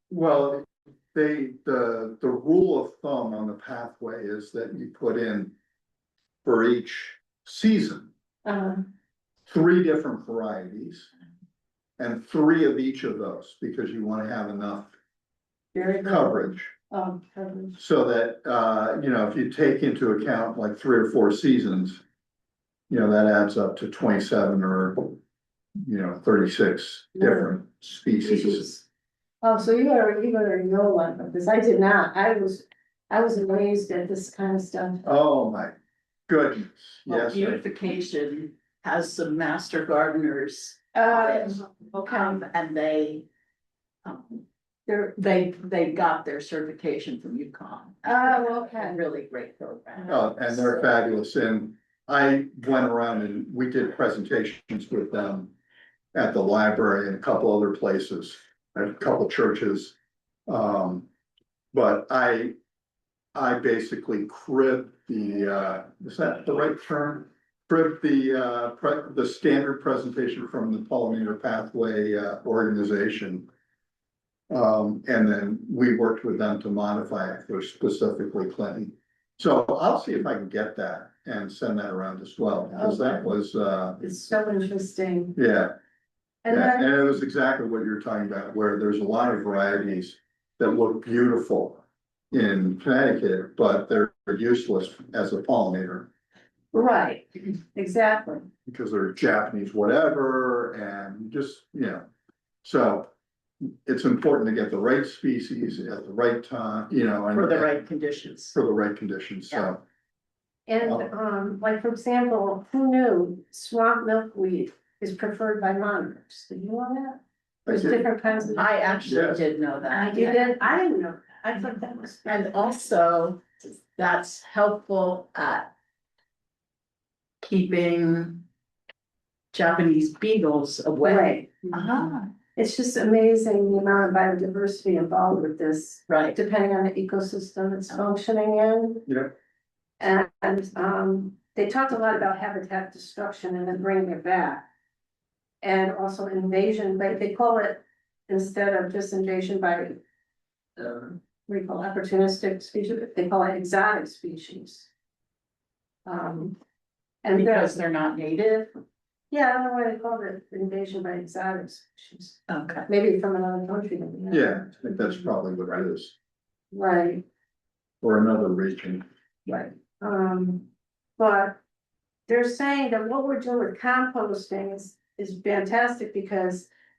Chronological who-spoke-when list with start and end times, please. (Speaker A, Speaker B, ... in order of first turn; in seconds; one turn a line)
Speaker A: 0.1-5.5
Speaker A: 6.4-8.1
Speaker B: 8.4-8.9
Speaker A: 9.5-11.1
Speaker A: 12.0-14.9
Speaker B: 15.7-17.8
Speaker A: 16.0-16.7
Speaker A: 17.8-22.0
Speaker A: 22.9-25.2
Speaker A: 25.8-28.7
Speaker B: 27.2-27.5
Speaker B: 28.2-28.8
Speaker B: 29.4-35.0
Speaker A: 35.0-35.7
Speaker A: 36.3-37.6
Speaker C: 37.1-43.3
Speaker B: 41.0-41.6
Speaker C: 44.0-50.9
Speaker B: 48.0-49.0
Speaker A: 50.1-55.5
Speaker A: 56.1-60.0
Speaker A: 60.5-61.1
Speaker A: 61.7-62.5
Speaker A: 63.4-73.5
Speaker A: 74.5-84.0
Speaker B: 82.8-83.3
Speaker B: 84.0-85.4
Speaker A: 85.4-85.7
Speaker B: 86.5-86.9
Speaker A: 86.5-96.1
Speaker B: 96.7-98.5
Speaker A: 98.7-102.0
Speaker A: 102.6-103.1
Speaker A: 103.9-107.8
Speaker C: 107.3-108.6
Speaker A: 108.5-109.8
Speaker B: 110.7-119.0
Speaker A: 110.8-111.1
Speaker A: 117.7-118.0
Speaker C: 118.5-120.5
Speaker A: 119.1-119.4
Speaker B: 119.9-122.5
Speaker C: 122.2-125.7
Speaker C: 127.4-128.4
Speaker C: 129.5-132.3
Speaker B: 131.0-132.1
Speaker B: 132.6-139.1
Speaker C: 136.1-136.4
Speaker A: 139.1-139.3
Speaker B: 140.0-144.7
Speaker B: 145.6-150.0
Speaker B: 150.8-154.9
Speaker B: 156.1-156.6
Speaker B: 157.2-157.8
Speaker C: 157.3-158.7
Speaker B: 159.3-164.9
Speaker C: 162.5-162.9
Speaker A: 164.3-166.2
Speaker B: 166.7-167.2
Speaker A: 168.0-169.0
Speaker B: 169.5-170.7
Speaker B: 171.2-171.6
Speaker B: 172.3-176.7